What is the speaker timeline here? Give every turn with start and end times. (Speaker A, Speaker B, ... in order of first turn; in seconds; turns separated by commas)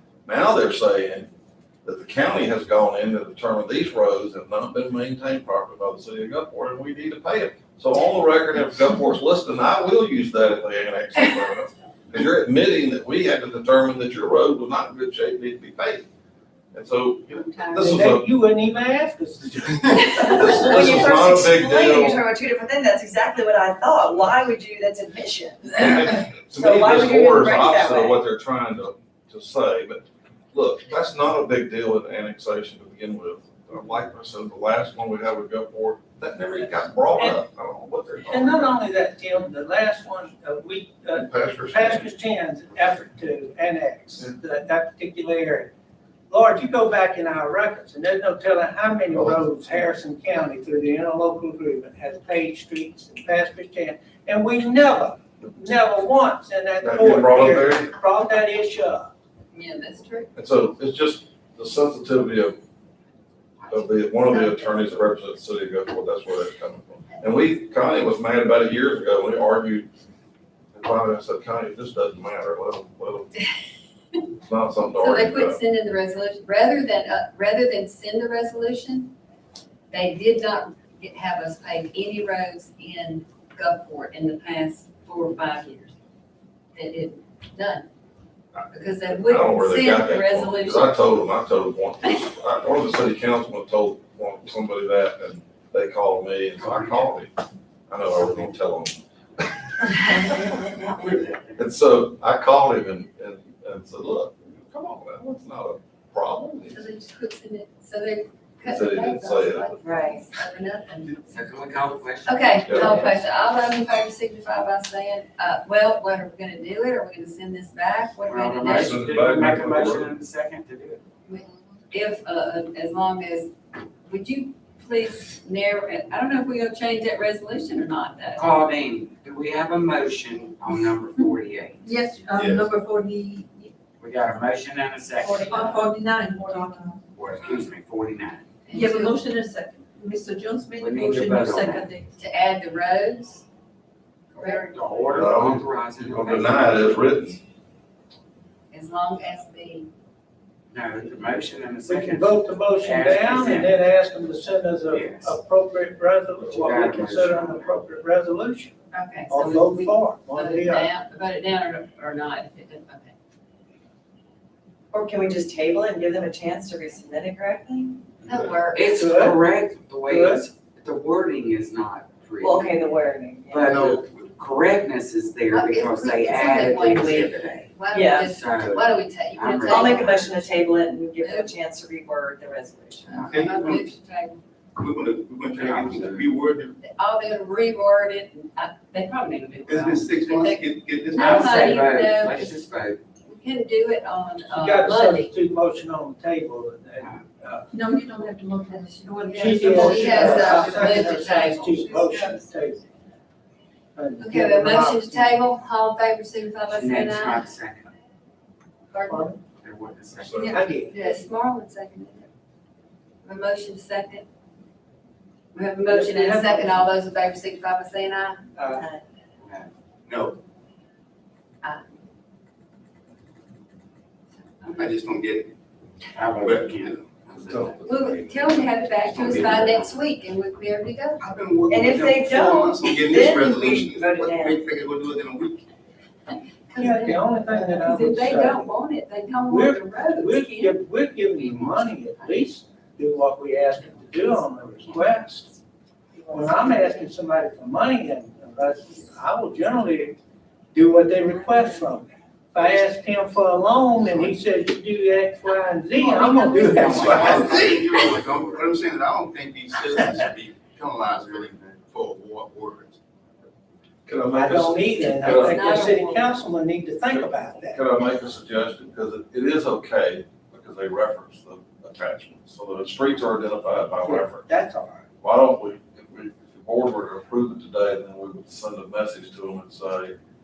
Speaker A: 0.2-1.3, Speaker A: 1.8-16.1, Speaker A: 16.7-18.2, Speaker B: 17.4-17.9, Speaker C: 17.8-20.1, Speaker A: 20.0-22.2, Speaker D: 20.3-25.9, Speaker A: 25.7-38.7, Speaker D: 26.5-28.1, Speaker C: 38.3-45.7, Speaker A: 41.1-42.1, Speaker C: 46.3-59.1, Speaker A: 49.1-49.4, Speaker A: 56.8-57.9, Speaker B: 59.5-60.3, Speaker A: 60.4-62.6, Speaker A: 63.7-69.9, Speaker B: 64.3-64.6, Speaker A: 70.7-73.3, Speaker A: 74.4-75.6, Speaker B: 75.0-79.1, Speaker B: 79.9-85.9, Speaker B: 86.7-87.9, Speaker A: 88.6-97.3, Speaker B: 88.7-91.0, Speaker A: 97.9-100.8, Speaker A: 101.5-106.9, Speaker B: 106.7-111.5, Speaker A: 108.6-109.8, Speaker E: 111.3-113.2, Speaker B: 112.2-119.0, Speaker A: 112.6-113.1, Speaker E: 118.2-121.0, Speaker A: 118.7-120.1, Speaker B: 121.3-123.5, Speaker B: 124.1-128.6, Speaker E: 128.3-131.9, Speaker F: 131.8-133.7, Speaker G: 132.3-132.8, Speaker E: 134.0-135.8, Speaker F: 135.2-137.0, Speaker E: 137.2-138.4, Speaker G: 137.2-137.7, Speaker B: 138.7-139.2, Speaker F: 138.7-142.1, Speaker E: 140.8-141.9, Speaker B: 142.2-143.4, Speaker E: 144.3-147.1, Speaker B: 144.3-144.6, Speaker F: 144.5-145.4, Speaker A: 145.1-147.4, Speaker B: 148.7-149.9, Speaker E: 150.7-153.8, Speaker C: 151.9-158.8, Speaker E: 154.9-155.4, Speaker E: 156.5-157.7, Speaker B: 158.9-163.1, Speaker C: 159.3-160.9, Speaker D: 164.9-168.1, Speaker B: 168.2-169.0, Speaker E: 168.7-172.8, Speaker C: 169.0-169.4, Speaker C: 170.1-170.4, Speaker D: 172.4-173.6, Speaker E: 173.5-180.2, Speaker G: 173.7-174.3, Speaker B: 175.5-181.6, Speaker D: 177.9-178.2, Speaker D: 179.7-183.0, Speaker B: 183.0-184.4, Speaker G: 183.1-183.9, Speaker G: 184.8-186.8, Speaker E: 185.5-186.3, Speaker B: 186.8-192.6, Speaker G: 189.7-191.7, Speaker E: 191.1-193.0, Speaker B: 193.2-195.3, Speaker C: 194.5-197.7, Speaker F: 197.7-202.4, Speaker B: 199.0-202.2, Speaker C: 199.4-202.8, Speaker C: 203.9-205.3, Speaker B: 204.2-207.5, Speaker E: 206.7-207.9, Speaker B: 208.9-209.3, Speaker C: 209.1-209.4, Speaker E: 209.6-210.5, Speaker A: 210.1-210.6, Speaker B: 210.3-212.3, Speaker C: 210.5-211.1, Speaker B: 213.2-214.2, Speaker B: 215.5-218.5, Speaker C: 215.9-216.8, Speaker C: 218.5-218.8, Speaker D: 218.7-219.0, Speaker E: 219.4-219.7, Speaker G: 220.1-220.4, Speaker B: 221.6-221.9, Speaker B: 224.6-225.1, Speaker G: 224.7-225.5, Speaker E: 226.1-227.7, Speaker G: 226.4-229.7, Speaker B: 227.8-231.2, Speaker E: 229.2-229.8, Speaker G: 231.2-235.7, Speaker D: 231.7-234.6, Speaker B: 236.7-240.8, Speaker C: 236.8-238.6, Speaker C: 239.5-245.5, Speaker C: 246.3-250.2, Speaker C: 250.7-257.4, Speaker F: 251.4-251.8, Speaker E: 255.9-258.7, Speaker F: 256.3-257.5, Speaker G: 256.7-263.0, Speaker A: 264.1-265.8, Speaker C: 264.2-267.8, Speaker B: 265.1-266.3, Speaker A: 267.1-274.5, Speaker C: 274.0-275.1, Speaker A: 275.2-280.1